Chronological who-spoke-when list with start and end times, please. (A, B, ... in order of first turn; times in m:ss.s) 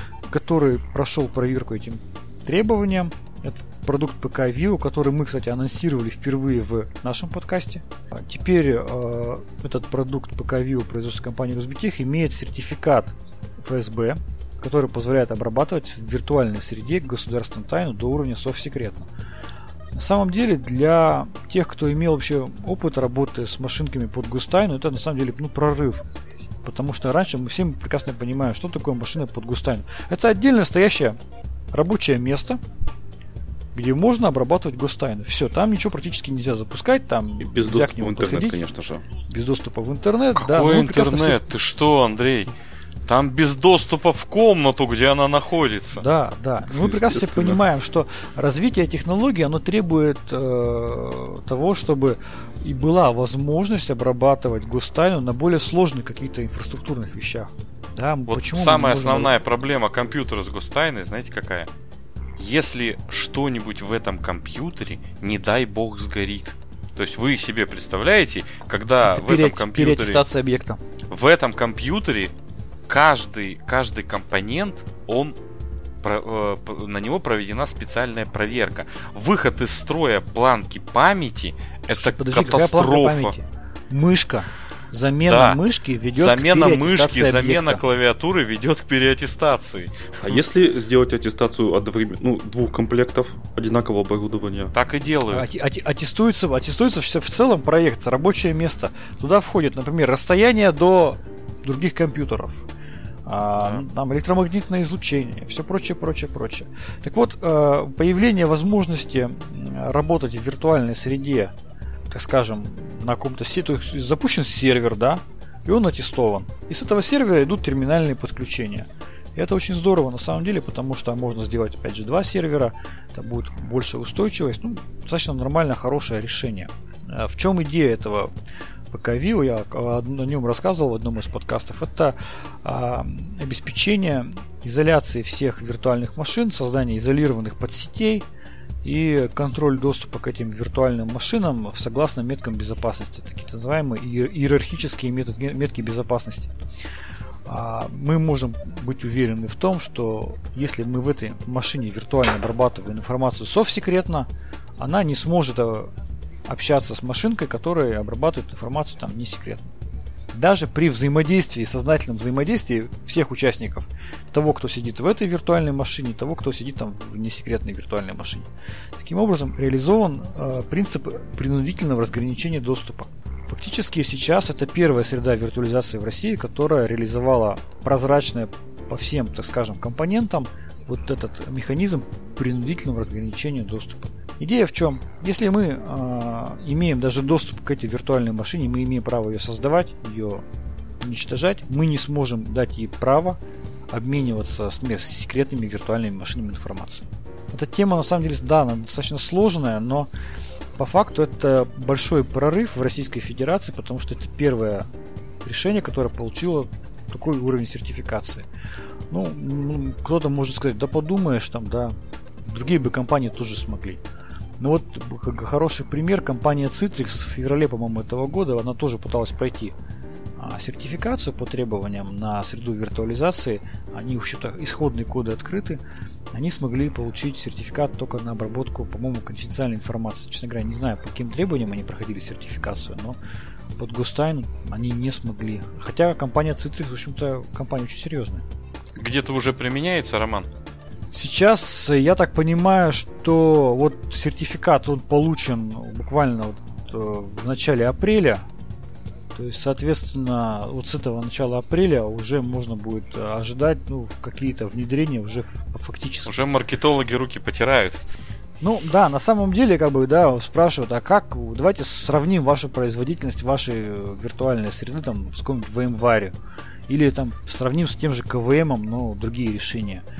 0:00.2-0:19.1 A
0:19.9-0:26.0 A
0:26.6-0:31.2 A
0:31.7-0:32.6 A
0:33.7-0:38.7 A
0:37.4-0:39.0 B
0:39.3-0:41.4 A
0:40.4-0:42.5 C
0:43.1-0:46.0 C
0:45.9-0:59.3 A
0:46.7-0:47.6 B
0:58.3-1:01.7 C
1:02.4-1:10.2 C
1:09.0-1:10.8 A
1:11.1-1:12.3 C
1:12.9-1:15.3 C
1:16.0-1:23.3 C
1:21.9-1:27.8 A
1:25.3-1:25.6 C
1:26.1-1:30.4 C
1:30.2-1:34.7 B
1:34.7-1:35.5 C
1:35.3-1:42.7 A
1:43.2-1:51.5 A
1:52.1-2:08.3 A
2:08.9-2:18.2 A
2:18.8-2:26.6 A
2:27.5-2:35.9 A
2:36.5-2:39.7 A
2:40.3-3:10.4 A
3:11.0-3:13.4 A
3:13.9-3:20.1 A
3:20.8-3:24.9 A
3:25.4-3:28.4 A
3:29.1-3:34.0 A
3:34.6-3:39.7 A
3:40.4-3:45.8 A
3:46.3-3:53.2 A
3:53.8-3:58.4 A
3:59.0-4:00.5 C
4:01.1-4:08.5 A
4:09.3-4:16.3 A
4:16.2-4:18.0 C
4:18.6-4:26.3 A
4:26.9-4:30.0 A